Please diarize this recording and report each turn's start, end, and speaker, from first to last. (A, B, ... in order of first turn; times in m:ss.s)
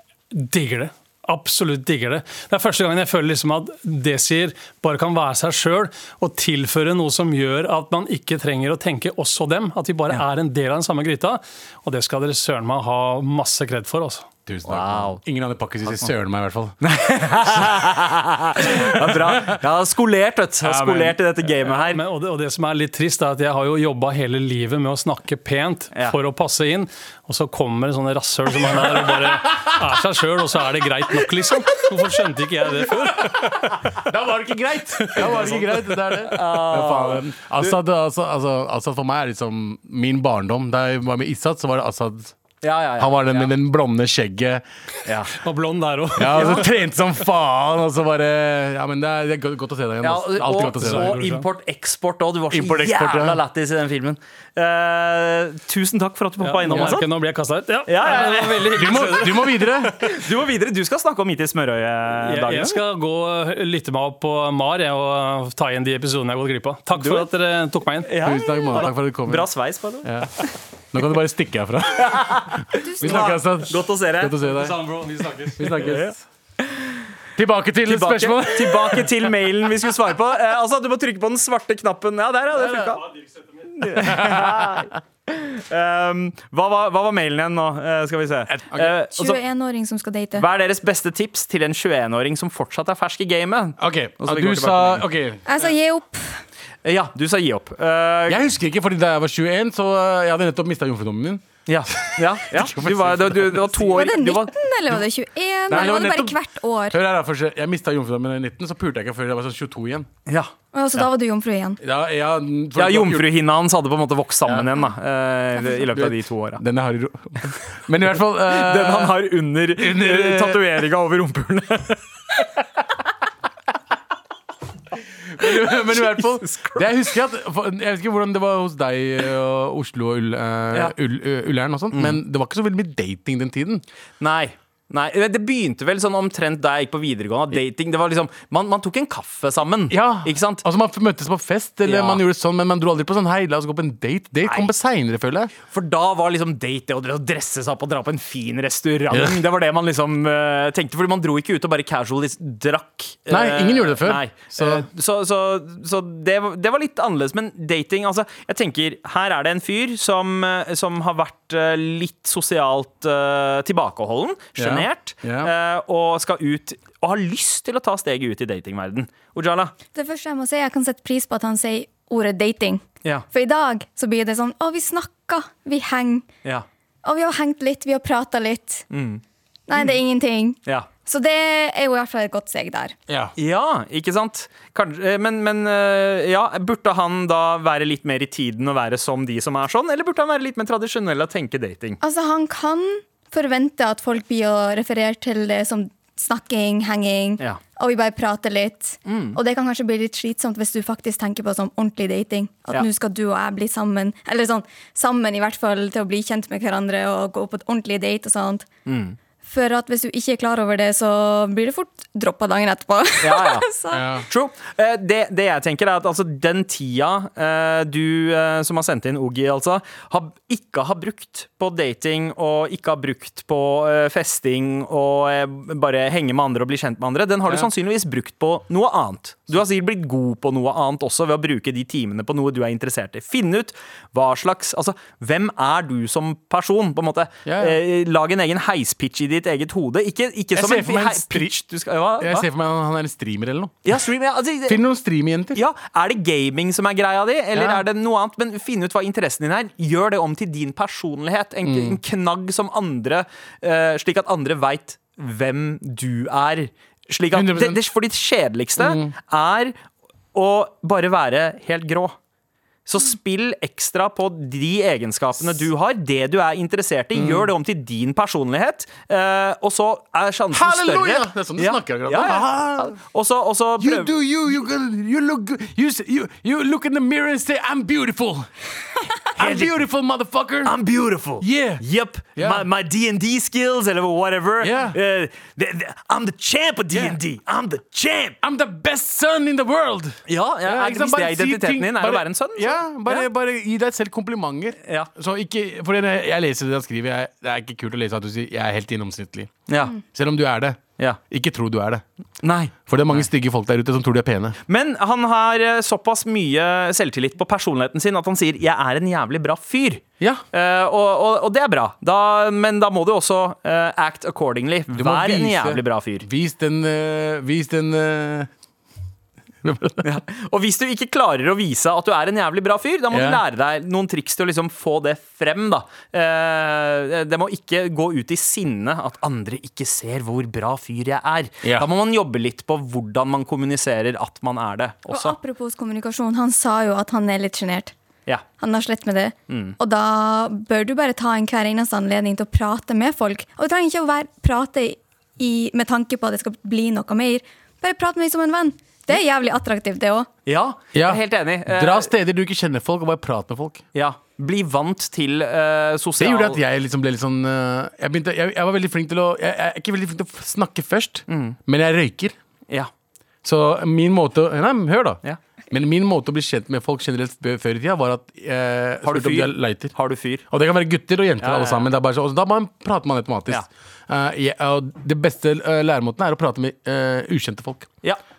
0:00.3-0:14.3 A
0:14.5-0:16.8 B
0:14.7-0:15.2 C
0:16.8-0:22.0 C
0:17.4-0:17.8 B
0:18.7-0:19.6 B
0:20.6-0:21.2 B
0:21.7-0:33.8 A
0:29.5-0:29.8 B
0:33.2-0:42.4 B
0:35.1-0:35.5 A
0:35.2-0:35.6 C
0:36.2-0:37.8 C
0:42.6-0:43.6 C
0:43.0-0:44.6 B
0:45.0-0:45.4 C
0:45.3-0:46.6 A
0:46.2-0:51.2 B
0:46.3-0:46.6 C
0:50.0-0:57.1 C
0:50.7-0:51.5 A
0:52.5-0:53.4 B
0:56.4-0:59.7 A
0:57.9-1:02.8 C
0:58.7-1:00.0 B
1:02.2-1:08.2 A
1:06.9-1:07.3 C
1:08.0-1:10.6 C
1:08.2-1:09.5 B
1:10.0-1:10.3 B
1:10.9-1:14.9 B
1:12.0-1:14.4 C
1:13.0-1:13.3 D
1:14.5-1:16.0 A
1:15.6-1:16.2 B
1:15.8-1:16.1 C
1:17.4-1:19.1 B
1:17.8-1:23.1 C
1:23.6-1:29.4 C
1:24.0-1:24.8 B
1:28.5-1:28.9 B
1:29.1-1:30.5 D
1:30.4-1:35.1 C
1:33.8-1:35.4 B
1:35.5-1:36.4 D
1:36.8-1:38.4 C
1:38.3-1:43.9 B
1:41.7-1:44.5 C
1:43.9-1:47.0 D
1:45.7-1:46.4 B
1:46.9-1:50.1 B
1:50.3-1:51.1 C
1:50.7-1:51.8 D
1:51.8-1:53.3 B
1:52.8-1:56.6 C
1:55.9-1:59.2 B
1:58.4-2:02.0 C
1:59.8-2:00.6 B
2:05.0-2:13.8 B
2:05.7-2:06.9 C
2:11.9-2:12.2 C
2:14.2-2:20.6 C
2:19.9-2:25.5 B
2:21.8-2:22.2 C
2:25.7-2:49.7 C
2:29.1-2:29.4 B
2:33.3-2:34.9 B
2:44.6-2:45.5 B
2:49.9-2:56.3 D
2:57.0-2:58.9 D
2:58.9-2:59.2 C
2:59.7-3:03.0 D
3:03.1-3:03.3 B
3:03.4-3:12.0 C
3:12.0-3:28.7 D
3:19.1-3:19.4 C
3:28.9-3:29.2 C
3:29.4-3:34.1 D
3:33.2-3:33.7 C
3:33.9-3:34.3 B
3:34.2-4:02.5 C
3:57.4-3:57.8 B
4:00.6-4:01.6 B
4:02.2-4:03.9 B
4:03.8-4:04.8 C
4:04.7-4:05.6 B
4:05.6-4:19.8 C
4:07.6-4:07.8 B
4:11.6-4:12.0 B
4:17.3-4:17.8 B
4:18.8-4:19.1 B
4:20.3-4:22.2 C
4:22.9-4:34.1 C
4:27.2-4:27.5 B
4:30.5-4:33.0 B
4:33.8-4:38.5 B
4:39.2-4:40.8 B
4:39.4-4:39.8 C
4:40.6-4:48.4 C
4:41.4-4:41.8 B
4:42.4-4:42.7 B
4:44.6-4:45.0 B
4:46.9-4:47.2 B
4:48.4-4:59.5 B
4:50.3-4:53.3 C
4:54.8-4:55.1 C
4:59.7-5:00.0 C
5:00.0-5:02.0 B
5:02.4-5:03.3 C
5:02.9-5:04.6 B
5:04.7-5:16.3 C
5:14.9-5:18.5 B
5:19.6-5:20.1 B
5:20.0-5:35.4 C
5:23.1-5:23.4 B
5:35.1-5:37.9 D
5:38.6-5:50.3 D
5:39.5-5:39.8 C
5:50.5-5:52.1 C
5:50.9-5:53.8 B
5:53.9-5:56.6 C
5:56.2-6:02.4 B
6:01.3-6:01.6 C
6:03.4-6:09.9 B
6:09.0-6:10.4 C
6:10.5-6:17.9 B
6:11.4-6:11.9 C